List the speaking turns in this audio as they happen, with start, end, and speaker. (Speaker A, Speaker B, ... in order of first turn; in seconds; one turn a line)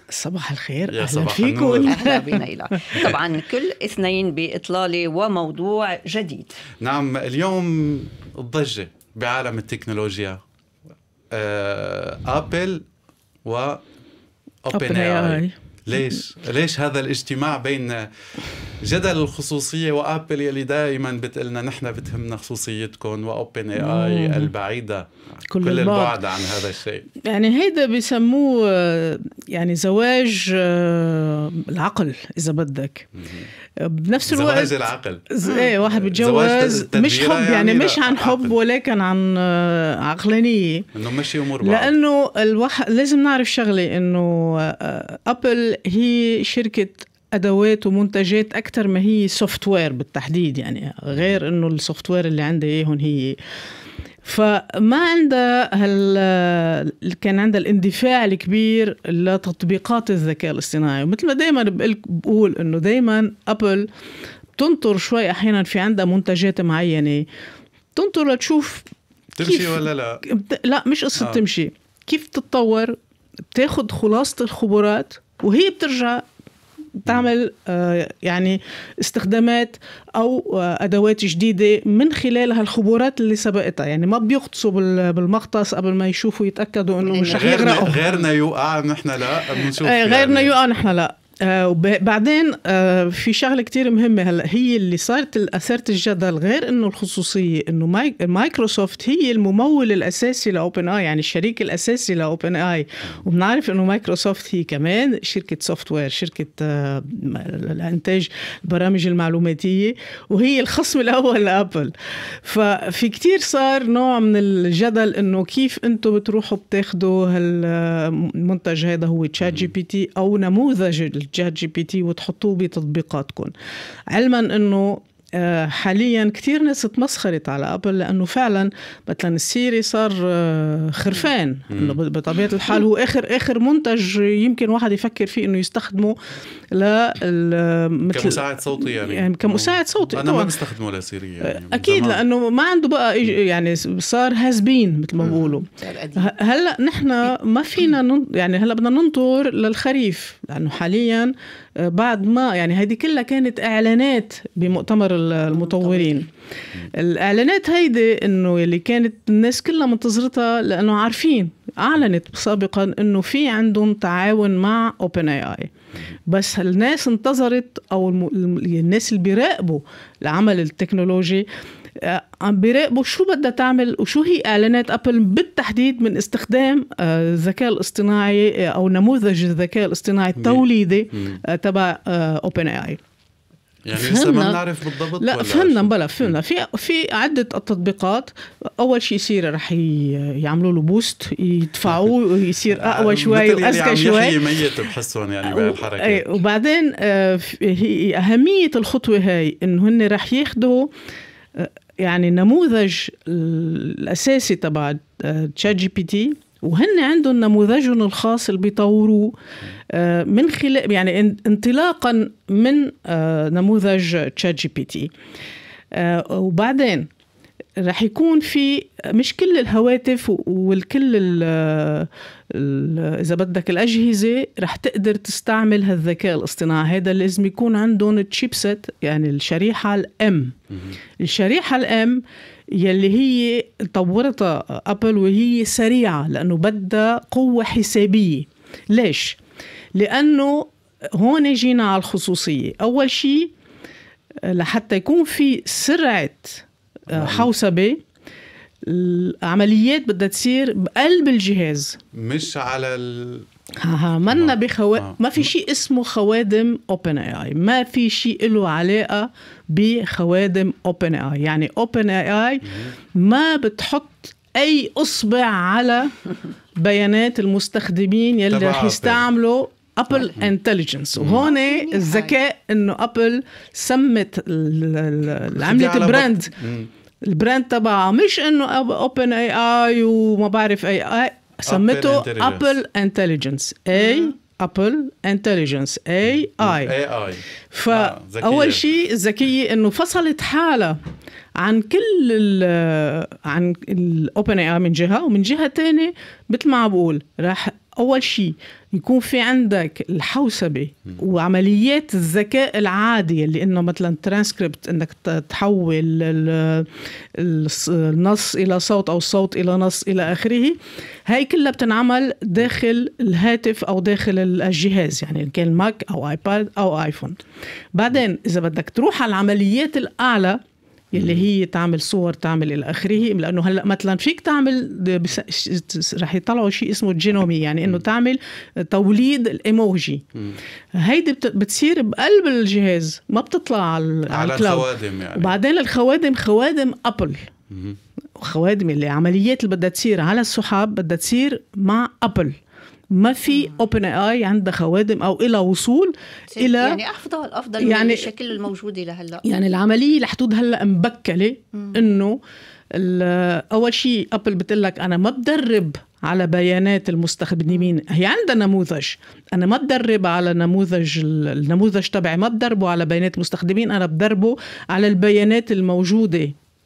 Speaker A: 0.1-2.3
Speaker B: 0.9-2.1
Speaker C: 1.9-6.6
Speaker B: 6.8-10.4
Speaker B: 11.3-12.8
Speaker B: 13.4-13.8
Speaker B: 14.6-18.1
Speaker A: 14.7-15.6
Speaker B: 18.8-27.1
Speaker A: 23.8-24.5
Speaker A: 25.4-26.4
Speaker A: 27.2-33.1
Speaker A: 33.8-40.9
Speaker B: 34.3-35.2
Speaker C: 35.4-35.7
Speaker B: 35.8-38.5
Speaker B: 41.0-41.9
Speaker A: 41.6-53.4
Speaker A: 54.2-63.9
Speaker A: 64.6-67.3
Speaker A: 67.9-68.9
Speaker B: 69.4-70.2
Speaker A: 69.4-73.0
Speaker A: 73.5-76.2
Speaker A: 77.0-88.1
Speaker C: 87.1-87.5
Speaker B: 87.2-90.5
Speaker A: 89.6-123.5
Speaker B: 119.4-119.7
Speaker A: 124.1-136.2
Speaker B: 131.7-132.0
Speaker A: 136.7-140.5
Speaker B: 138.1-142.2
Speaker A: 141.4-165.7
Speaker C: 145.2-146.3
Speaker C: 155.5-156.2
Speaker A: 166.3-171.5
Speaker A: 172.0-183.0
Speaker B: 180.4-181.4
Speaker B: 183.8-185.9
Speaker A: 183.9-184.6
Speaker A: 185.2-194.7
Speaker B: 192.7-196.3
Speaker A: 195.4-200.9
Speaker A: 201.6-209.3
Speaker A: 209.9-215.1
Speaker A: 215.9-217.1
Speaker A: 217.8-230.5
Speaker A: 231.2-232.2
Speaker A: 232.8-239.4
Speaker A: 239.9-243.5
Speaker A: 244.4-248.0
Speaker B: 247.1-247.5
Speaker A: 248.8-252.0
Speaker B: 252.1-253.4
Speaker A: 253.8-266.1
Speaker B: 254.3-255.5
Speaker A: 266.8-276.5
Speaker B: 268.5-269.3
Speaker B: 270.2-270.5
Speaker B: 271.1-271.5
Speaker C: 271.4-272.3
Speaker B: 275.5-276.9
Speaker A: 277.2-286.9
Speaker B: 281.7-282.8
Speaker C: 283.9-284.3
Speaker B: 286.4-288.9
Speaker A: 287.7-291.0
Speaker A: 291.6-317.4
Speaker A: 317.9-320.6
Speaker A: 321.1-330.2
Speaker B: 321.2-321.4
Speaker A: 330.9-337.5
Speaker B: 334.3-335.6
Speaker B: 337.7-338.0
Speaker A: 338.4-342.6
Speaker A: 343.1-347.0
Speaker C: 346.5-349.4
Speaker A: 347.8-348.3
Speaker A: 349.4-352.4
Speaker A: 352.9-366.5